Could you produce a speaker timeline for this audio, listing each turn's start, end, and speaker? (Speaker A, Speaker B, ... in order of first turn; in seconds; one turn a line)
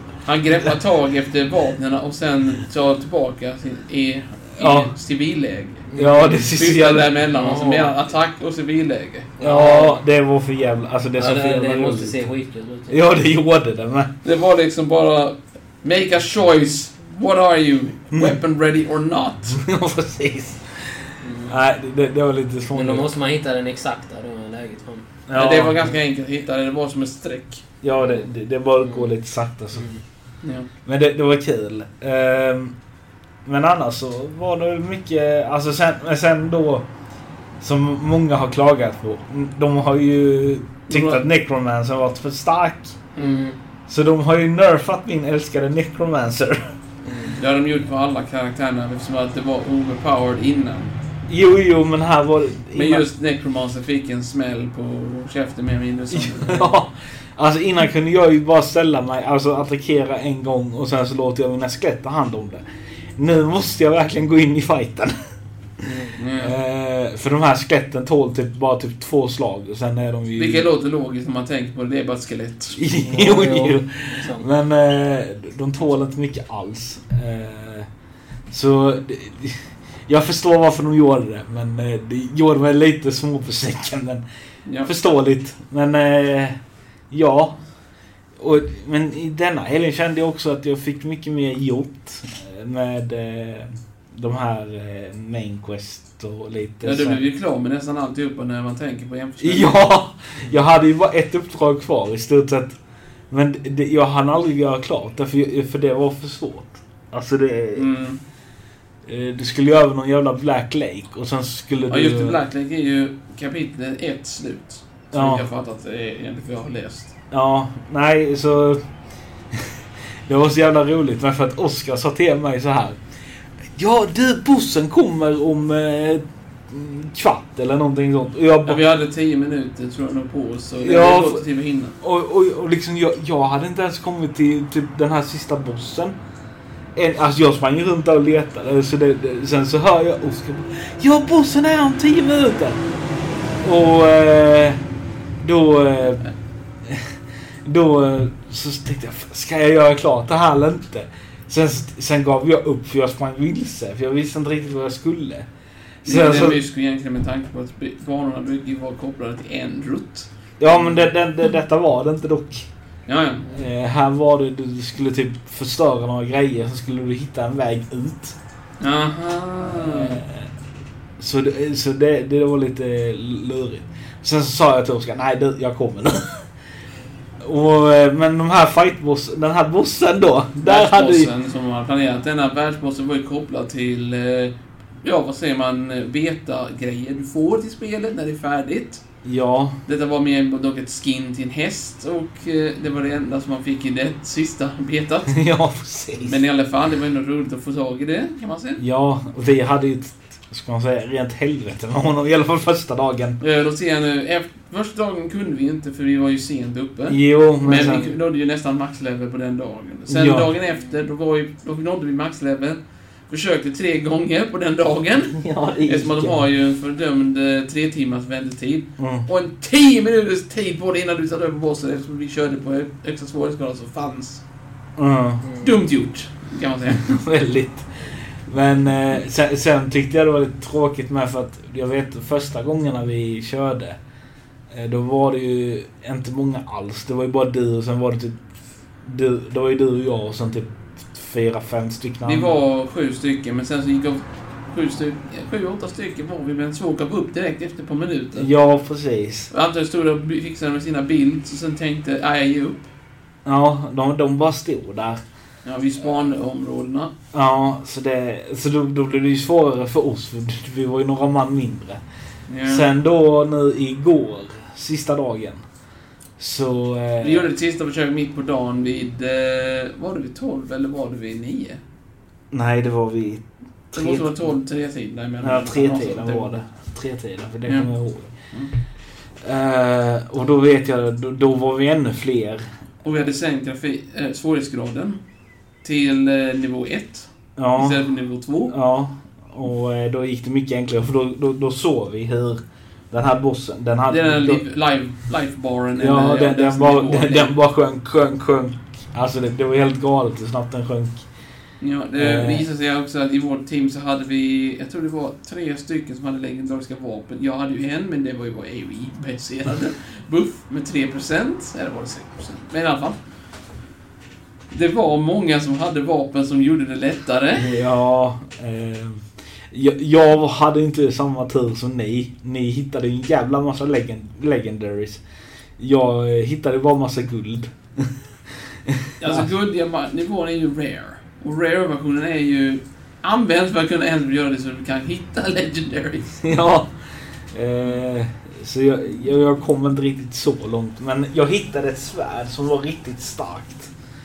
Speaker A: 0.2-5.9
Speaker B: 4.6-4.9
Speaker C: 5.9-6.5
Speaker B: 6.0-7.1
Speaker A: 6.5-9.4
Speaker C: 7.3-8.0
Speaker C: 9.4-10.0
Speaker B: 9.4-12.2
Speaker C: 11.2-13.1
Speaker B: 12.9-14.1
Speaker A: 14.2-19.6
Speaker B: 19.5-20.6
Speaker C: 21.2-21.5
Speaker B: 21.4-23.1
Speaker C: 22.7-25.1
Speaker B: 25.3-25.9
Speaker A: 25.3-27.6
Speaker B: 27.8-29.9
Speaker C: 27.9-29.1
Speaker C: 29.7-30.0
Speaker A: 30.4-30.7
Speaker B: 30.9-32.7
Speaker B: 33.5-36.9
Speaker B: 37.6-43.0
Speaker A: 40.9-41.2
Speaker A: 43.1-43.4
Speaker C: 43.2-43.5
Speaker B: 43.9-46.7
Speaker C: 47.0-47.4
Speaker A: 47.4-50.9
Speaker B: 51.3-53.1
Speaker A: 52.7-56.8
Speaker B: 56.1-62.6
Speaker B: 63.2-65.1
Speaker C: 65.8-66.2
Speaker A: 66.2-66.5
Speaker B: 66.3-70.7
Speaker A: 70.4-72.8
Speaker B: 72.8-77.9
Speaker C: 73.0-74.5
Speaker B: 78.5-84.2
Speaker A: 84.7-84.9
Speaker B: 84.8-86.6
Speaker B: 87.1-87.5
Speaker B: 88.4-97.2
Speaker A: 96.8-99.9
Speaker B: 99.4-102.7
Speaker B: 103.3-107.9
Speaker A: 107.7-108.2
Speaker B: 109.0-112.4
Speaker A: 111.9-117.1
Speaker B: 115.1-115.5
Speaker B: 117.3-118.8
Speaker B: 120.3-123.0
Speaker B: 123.8-128.8
Speaker A: 128.7-131.9
Speaker B: 130.8-131.4
Speaker B: 132.0-136.2
Speaker B: 136.9-142.8
Speaker B: 143.6-144.8
Speaker B: 145.4-146.3
Speaker B: 146.8-147.1
Speaker B: 147.6-155.5
Speaker B: 156.0-156.6
Speaker A: 156.0-160.3
Speaker B: 160.6-162.7
Speaker A: 163.1-163.4
Speaker B: 163.5-168.4
Speaker A: 168.8-170.2
Speaker B: 169.8-170.5
Speaker B: 171.2-176.4
Speaker B: 177.4-181.3
Speaker A: 180.6-189.0
Speaker B: 189.2-189.8
Speaker A: 189.8-195.3
Speaker B: 195.3-196.4
Speaker A: 196.2-198.8
Speaker B: 198.8-203.4
Speaker A: 203.4-224.4
Speaker B: 207.1-208.1
Speaker B: 210.1-210.5
Speaker B: 215.3-216.4
Speaker B: 219.0-219.3
Speaker B: 225.0-225.4
Speaker C: 225.4-225.7
Speaker A: 225.6-227.2
Speaker B: 226.9-227.8
Speaker B: 228.4-234.0
Speaker B: 234.7-238.4
Speaker B: 239.0-242.5
Speaker A: 242.2-248.5
Speaker B: 248.3-249.5
Speaker A: 249.5-252.8
Speaker B: 253.4-255.2
Speaker A: 255.6-257.1
Speaker B: 257.3-262.0
Speaker A: 262.5-262.9
Speaker B: 262.6-265.6
Speaker B: 266.4-267.5
Speaker A: 267.2-271.8
Speaker B: 272.5-274.4
Speaker A: 273.9-276.6
Speaker B: 275.4-278.3
Speaker A: 277.7-277.9
Speaker B: 279.4-282.6
Speaker A: 283.0-285.2
Speaker A: 285.8-288.7
Speaker B: 287.6-288.0
Speaker B: 288.7-294.6
Speaker A: 294.1-297.5
Speaker B: 296.0-301.2
Speaker A: 301.8-313.2
Speaker B: 302.1-302.6
Speaker A: 314.7-317.7
Speaker B: 317.5-325.2
Speaker B: 325.8-328.1
Speaker B: 328.9-329.4
Speaker A: 329.2-336.4
Speaker B: 336.4-336.9
Speaker B: 337.5-343.9